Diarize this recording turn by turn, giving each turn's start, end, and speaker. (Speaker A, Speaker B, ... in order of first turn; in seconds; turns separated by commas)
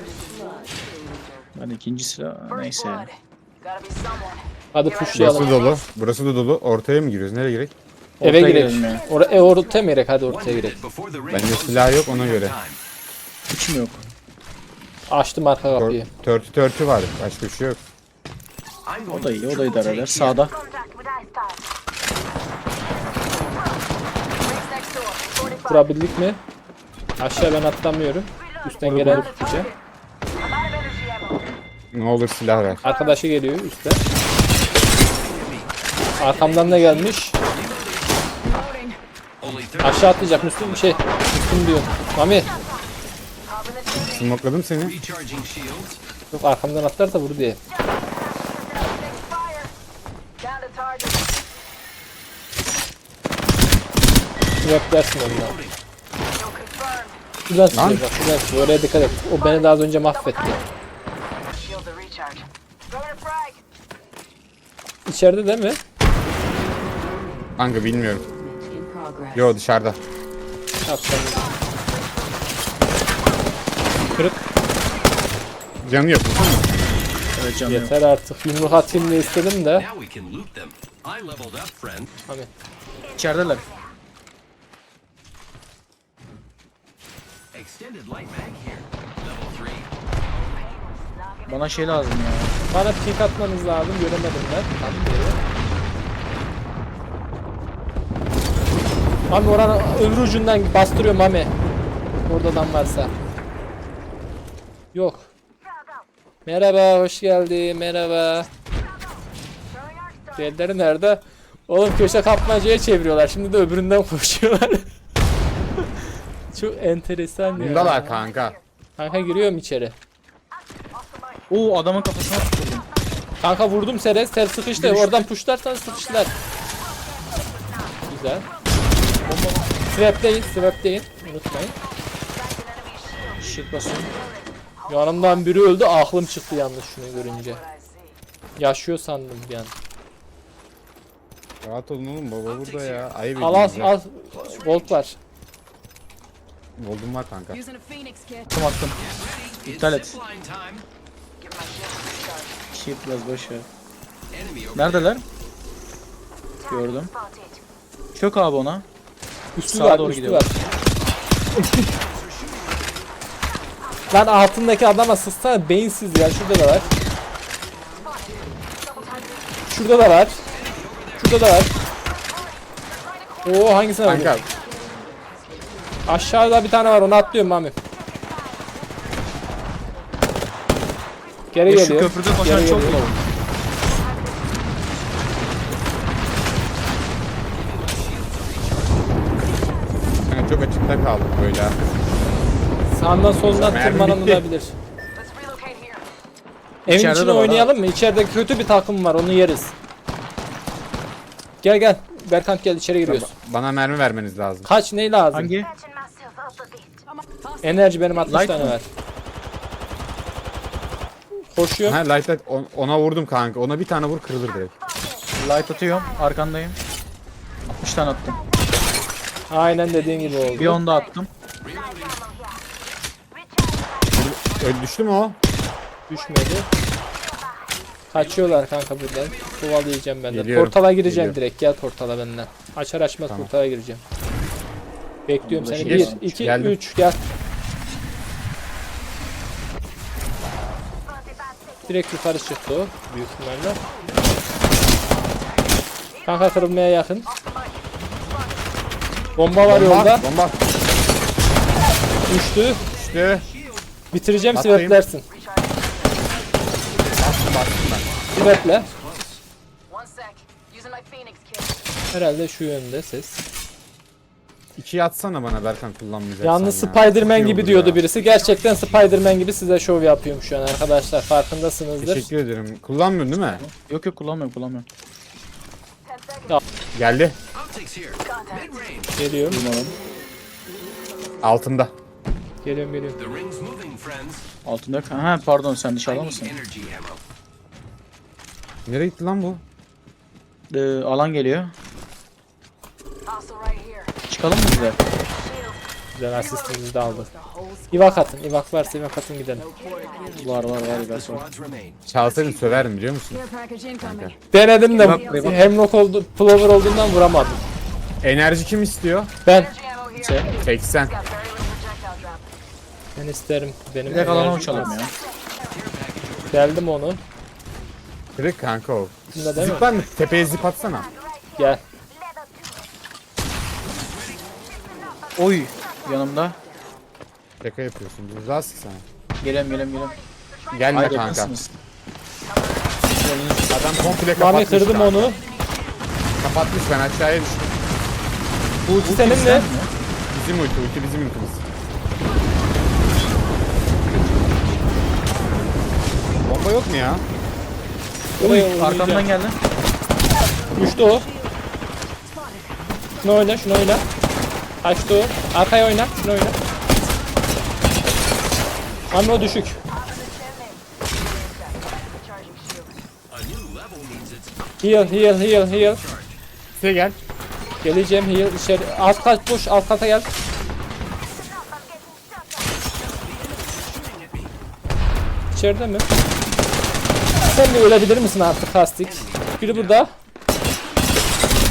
Speaker A: 0.2-0.9, Speaker B: 1.5-3.1, Speaker A: 3.7-4.4, Speaker C: 4.7-5.5, Speaker D: 5.1-7.7, Speaker B: 8.2-9.1, Speaker C: 8.2-10.8, Speaker E: 10.3-12.8, Speaker D: 11.3-12.6, Speaker B: 13.5-14.0, Speaker C: 15.1-16.1, Speaker D: 15.7-17.8, Speaker E: 18.9-20.4, Speaker B: 19.1-20.5, Speaker A: 20.8-21.3, Speaker A: 24.5-25.5, Speaker C: 25.6-26.4, Speaker C: 27.2-29.7, Speaker B: 28.8-29.2, Speaker D: 28.8-29.3, Speaker A: 30.8-31.2, Speaker D: 31.9-32.8, Speaker C: 32.8-34.0, Speaker E: 35.3-35.7, Speaker C: 36.2-37.4, Speaker E: 37.5-38.0, Speaker E: 39.4-40.9, Speaker C: 39.8-42.5, Speaker D: 43.9-45.0, Speaker E: 44.9-46.0, Speaker C: 46.3-47.6, Speaker A: 48.5-49.6, Speaker A: 50.5-51.0, Speaker C: 54.6-55.6, Speaker E: 55.5-55.7, Speaker A: 56.5-57.1, Speaker C: 57.5-60.6, Speaker D: 57.7-58.0, Speaker A: 61.7-62.4, Speaker A: 63.0-63.5, Speaker C: 65.0-65.8, Speaker D: 67.6-68.3, Speaker A: 68.3-69.3, Speaker D: 69.3-70.0, Speaker C: 70.8-71.5, Speaker C: 74.2-74.4, Speaker D: 75.8-76.8, Speaker B: 77.3-77.9, Speaker C: 77.7-79.8, Speaker E: 78.9-82.1, Speaker B: 83.1-83.7, Speaker E: 87.5-89.9, Speaker B: 91.5-92.6, Speaker C: 92.7-95.4, Speaker C: 99.3-101.5, Speaker C: 102.2-103.1, Speaker C: 104.9-105.3, Speaker C: 106.4-108.5, Speaker C: 110.3-114.9, Speaker C: 116.5-118.2, Speaker D: 117.6-118.6, Speaker C: 119.0-120.0, Speaker B: 121.5-122.9, Speaker C: 123.4-126.3, Speaker B: 124.8-125.2, Speaker C: 128.1-128.5, Speaker B: 129.2-129.7, Speaker C: 129.9-131.8, Speaker A: 132.8-133.2, Speaker B: 133.4-134.1, Speaker C: 134.9-137.6, Speaker C: 138.6-139.7, Speaker D: 141.6-143.9, Speaker E: 142.6-143.1, Speaker C: 143.4-145.2, Speaker D: 146.8-147.6, Speaker A: 147.7-148.3, Speaker B: 148.5-149.0, Speaker E: 149.0-150.8, Speaker B: 149.6-150.2, Speaker B: 152.7-153.7, Speaker E: 154.3-155.1, Speaker B: 154.7-155.2, Speaker B: 156.7-157.1, Speaker B: 158.1-158.8, Speaker C: 159.5-160.6, Speaker B: 159.6-160.5, Speaker E: 161.7-163.0, Speaker C: 164.1-166.9, Speaker A: 168.9-169.4, Speaker C: 169.7-170.4, Speaker E: 170.5-171.2, Speaker C: 171.2-171.7, Speaker C: 173.4-174.4, Speaker D: 174.0-174.5, Speaker C: 176.1-177.7, Speaker C: 181.5-183.0, Speaker B: 181.7-183.2, Speaker E: 187.8-188.8, Speaker D: 190.2-191.8, Speaker C: 192.9-194.7, Speaker D: 193.5-194.4, Speaker A: 195.2-196.0, Speaker C: 196.8-199.7, Speaker B: 196.9-197.7, Speaker C: 201.6-203.3, Speaker D: 203.0-204.7, Speaker C: 204.6-205.5, Speaker B: 205.3-205.8, Speaker A: 205.8-206.8, Speaker C: 207.6-208.8, Speaker B: 208.2-208.7, Speaker C: 211.4-212.0, Speaker D: 211.8-214.7, Speaker B: 215.4-216.8, Speaker B: 217.8-218.4, Speaker C: 219.5-220.8, Speaker B: 220.5-221.3, Speaker E: 221.6-222.2, Speaker D: 224.1-225.4, Speaker C: 226.1-226.7, Speaker C: 228.1-234.0, Speaker D: 230.3-231.4, Speaker C: 235.3-237.2, Speaker B: 235.4-236.5, Speaker D: 235.8-236.8, Speaker C: 241.8-243.8, Speaker E: 244.0-244.4, Speaker C: 246.2-247.3, Speaker C: 249.3-250.2, Speaker D: 249.7-250.6, Speaker C: 252.3-252.9, Speaker E: 252.8-253.8, Speaker D: 252.9-253.4, Speaker C: 254.1-255.2, Speaker D: 254.5-255.0, Speaker D: 257.1-258.1, Speaker E: 258.1-259.4, Speaker C: 258.3-258.9, Speaker A: 259.9-261.5, Speaker C: 262.1-263.4, Speaker D: 264.8-268.0, Speaker C: 266.4-272.3, Speaker E: 268.4-268.8, Speaker D: 272.0-273.6, Speaker B: 273.4-274.9, Speaker D: 276.9-277.4, Speaker E: 277.6-279.1, Speaker C: 279.1-279.7, Speaker B: 279.5-279.9, Speaker D: 281.4-281.9, Speaker C: 282.6-283.2, Speaker E: 283.2-284.4, Speaker B: 284.6-286.6, Speaker E: 286.1-287.2, Speaker D: 288.9-289.6, Speaker B: 290.7-291.7, Speaker A: 293.4-294.0, Speaker B: 294.3-295.1, Speaker C: 296.1-297.3, Speaker C: 297.9-299.7, Speaker A: 299.9-300.2, Speaker B: 300.2-301.5, Speaker E: 301.1-302.0, Speaker D: 302.1-303.4, Speaker A: 303.6-303.9, Speaker D: 304.0-304.4, Speaker C: 304.5-307.6, Speaker B: 304.9-305.6, Speaker D: 308.2-309.3, Speaker C: 309.4-309.8, Speaker B: 310.1-310.6, Speaker D: 310.6-311.2, Speaker A: 311.3-312.4, Speaker C: 313.1-315.0, Speaker B: 314.0-315.1, Speaker E: 315.7-316.5, Speaker C: 316.5-317.2, Speaker D: 318.4-321.1, Speaker C: 319.3-319.9, Speaker C: 321.5-321.8, Speaker B: 325.3-326.6, Speaker D: 327.6-329.0, Speaker B: 329.4-330.2, Speaker D: 330.7-331.5, Speaker B: 330.9-331.7, Speaker B: 333.0-334.2, Speaker D: 333.7-335.4, Speaker C: 334.3-335.4, Speaker D: 336.4-337.6, Speaker B: 338.9-339.9, Speaker C: 339.0-339.7, Speaker D: 340.3-341.6, Speaker B: 344.1-344.6, Speaker D: 346.4-347.2, Speaker C: 348.4-349.3, Speaker B: 348.4-349.6, Speaker C: 350.7-351.3, Speaker C: 353.2-354.0, Speaker C: 354.8-356.5, Speaker C: 359.1-359.8, Speaker A: 362.4-362.8, Speaker E: 363.3-364.5, Speaker C: 364.8-366.0, Speaker E: 365.9-366.3, Speaker D: 366.8-367.2, Speaker C: 367.8-370.3, Speaker E: 373.1-374.5, Speaker C: 375.5-376.1, Speaker C: 377.4-380.1, Speaker E: 379.1-379.9